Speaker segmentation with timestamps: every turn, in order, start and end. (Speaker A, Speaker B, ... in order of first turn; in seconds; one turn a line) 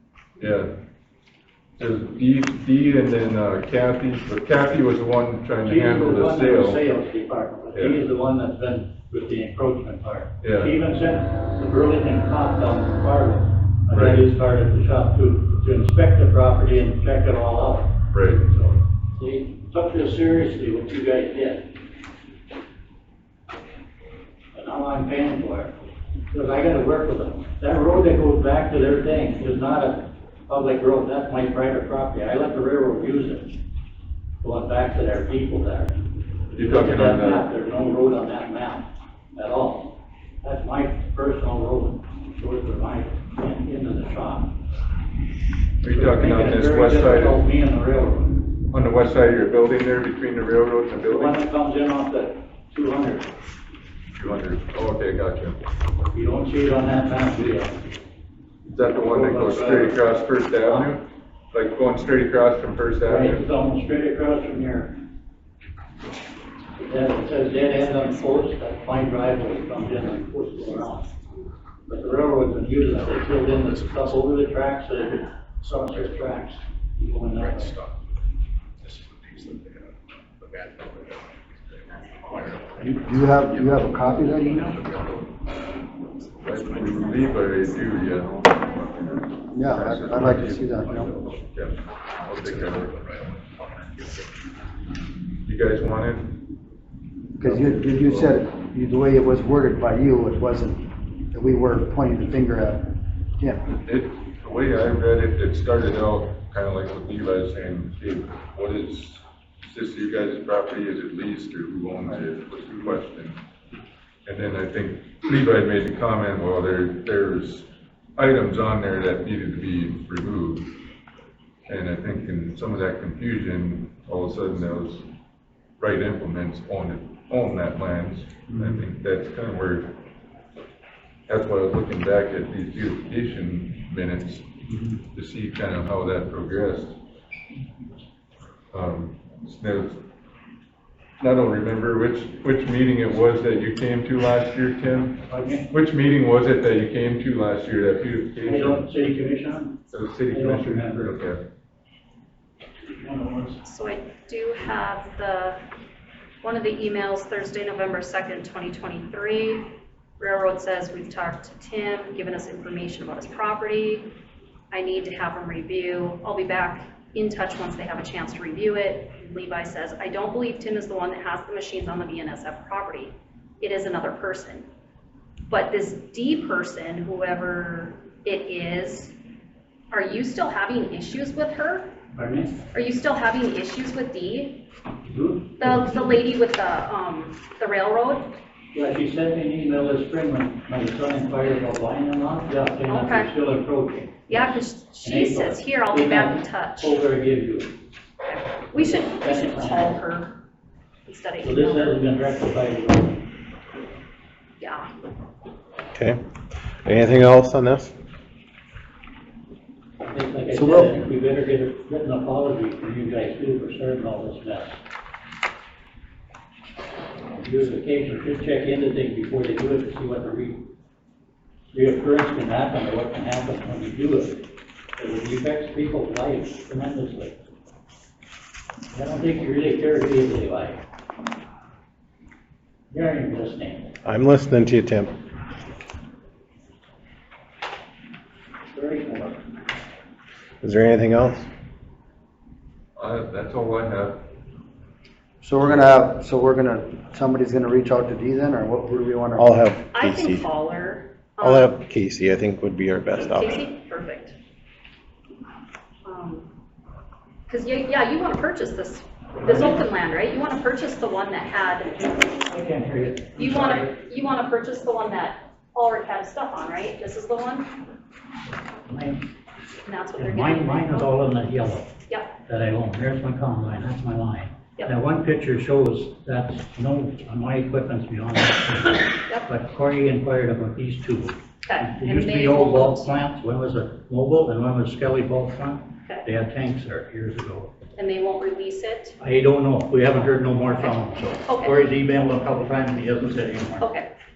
Speaker A: 0.4-0.7
Speaker A: 1.8-6.8
Speaker B: 5.6-17.9
Speaker A: 7.7-8.0
Speaker A: 10.4-10.7
Speaker A: 13.9-14.2
Speaker A: 18.1-18.4
Speaker B: 18.5-21.6
Speaker B: 24.5-25.7
Speaker B: 26.3-33.5
Speaker B: 34.4-44.5
Speaker A: 36.5-37.5
Speaker A: 45.8-47.4
Speaker B: 45.9-48.5
Speaker A: 48.7-51.4
Speaker B: 51.0-53.3
Speaker A: 54.1-55.6
Speaker B: 56.1-57.8
Speaker A: 58.7-63.5
Speaker B: 59.0-60.0
Speaker B: 60.6-60.9
Speaker B: 63.0-64.9
Speaker B: 66.8-71.1
Speaker B: 71.9-77.7
Speaker C: 73.3-74.2
Speaker C: 77.3-78.0
Speaker C: 78.8-85.4
Speaker D: 82.8-84.7
Speaker C: 86.4-87.6
Speaker A: 86.4-92.9
Speaker D: 89.5-91.1
Speaker C: 90.1-91.4
Speaker C: 92.2-94.4
Speaker A: 95.4-96.4
Speaker D: 97.4-103.6
Speaker A: 97.4-98.4
Speaker A: 103.7-113.4
Speaker A: 114.2-120.7
Speaker A: 121.7-125.1
Speaker A: 125.8-129.9
Speaker B: 128.5-128.8
Speaker A: 131.3-134.5
Speaker B: 134.7-135.0
Speaker A: 135.1-137.0
Speaker A: 138.7-140.0
Speaker A: 141.2-148.8
Speaker B: 145.3-145.7
Speaker B: 148.4-149.8
Speaker A: 149.9-151.4
Speaker B: 150.3-151.1
Speaker B: 152.8-153.6
Speaker E: 153.6-155.6
Speaker E: 156.4-164.1
Speaker E: 164.7-174.7
Speaker E: 175.5-179.1
Speaker E: 179.9-181.9
Speaker B: 182.1-182.6
Speaker E: 182.7-184.6
Speaker B: 185.1-186.1
Speaker E: 185.6-188.3
Speaker B: 188.7-197.7
Speaker E: 192.9-193.3
Speaker E: 194.3-196.9
Speaker E: 198.2-200.3
Speaker B: 198.7-200.0
Speaker E: 201.1-202.0
Speaker B: 201.4-203.2
Speaker E: 204.6-204.9
Speaker F: 205.9-206.2
Speaker F: 206.8-207.9
Speaker B: 210.0-214.8
Speaker D: 210.5-210.9
Speaker B: 217.3-220.6
Speaker B: 221.7-224.4
Speaker B: 225.0-227.3
Speaker B: 228.9-230.8
Speaker B: 232.9-233.9
Speaker F: 234.0-235.1
Speaker B: 238.7-239.4
Speaker F: 240.6-241.5
Speaker A: 242.9-244.2
Speaker D: 245.4-249.5
Speaker F: 249.4-250.4
Speaker E: 249.9-251.7
Speaker F: 251.4-253.6
Speaker E: 253.3-254.3
Speaker E: 256.0-256.5
Speaker E: 257.5-261.9
Speaker B: 259.4-259.8
Speaker B: 261.9-263.9
Speaker E: 263.4-267.7
Speaker B: 268.9-269.2
Speaker E: 269.8-271.1
Speaker B: 270.1-271.9
Speaker B: 272.4-287.7
Speaker E: 281.6-283.1
Speaker E: 287.9-289.2
Speaker B: 289.2-293.9
Speaker E: 291.4-291.8
Speaker E: 293.8-294.1